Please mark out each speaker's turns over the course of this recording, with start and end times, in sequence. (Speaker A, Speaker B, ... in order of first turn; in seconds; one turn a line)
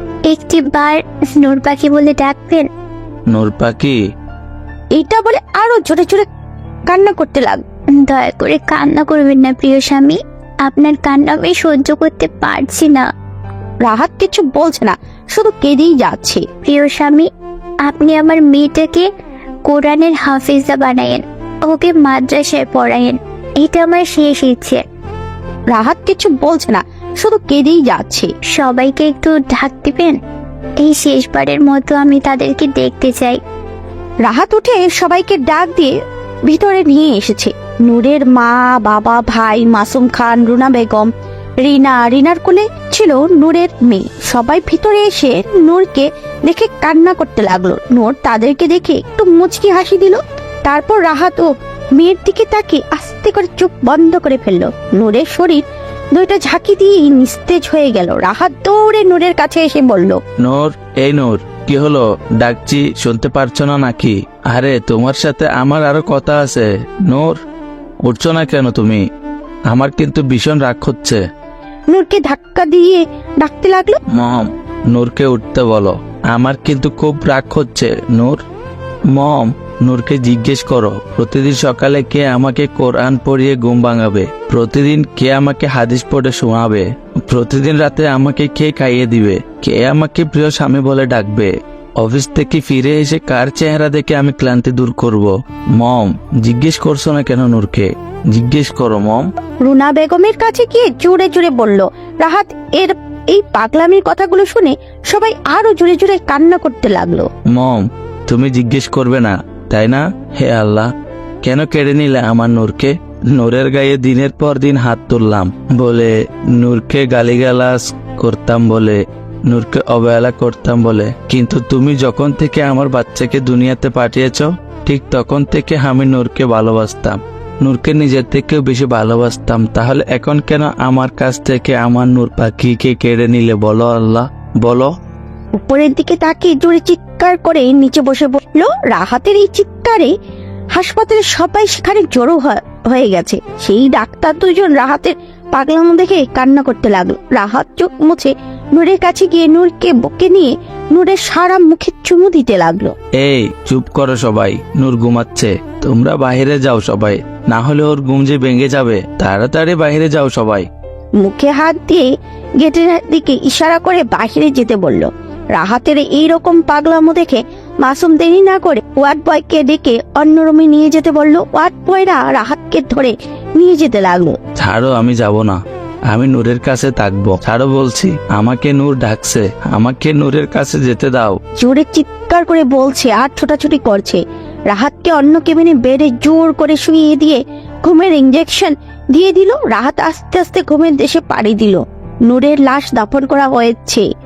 Speaker A: 0.3-2.7
Speaker B: 3.3-4.0
Speaker C: 4.9-6.2
Speaker C: 6.9-7.6
Speaker A: 8.0-13.1
Speaker C: 13.8-16.4
Speaker A: 16.6-17.3
Speaker A: 17.8-19.1
Speaker A: 19.7-24.8
Speaker C: 25.7-28.3
Speaker A: 28.5-30.2
Speaker A: 30.8-33.4
Speaker C: 34.2-35.9
Speaker C: 36.4-41.1
Speaker C: 41.6-55.6
Speaker C: 56.1-60.2
Speaker B: 60.4-67.4
Speaker B: 68.0-69.0
Speaker B: 69.7-71.2
Speaker C: 71.9-74.0
Speaker B: 74.1-78.4
Speaker B: 79.1-99.2
Speaker C: 99.6-107.3
Speaker B: 107.5-110.9
Speaker B: 111.4-134.9
Speaker C: 135.6-140.1
Speaker C: 140.7-152.9
Speaker B: 153.2-160.7
Speaker C: 161.2-162.1
Speaker C: 162.6-174.4
Speaker B: 174.6-175.6
Speaker B: 176.1-181.4
Speaker C: 181.6-194.1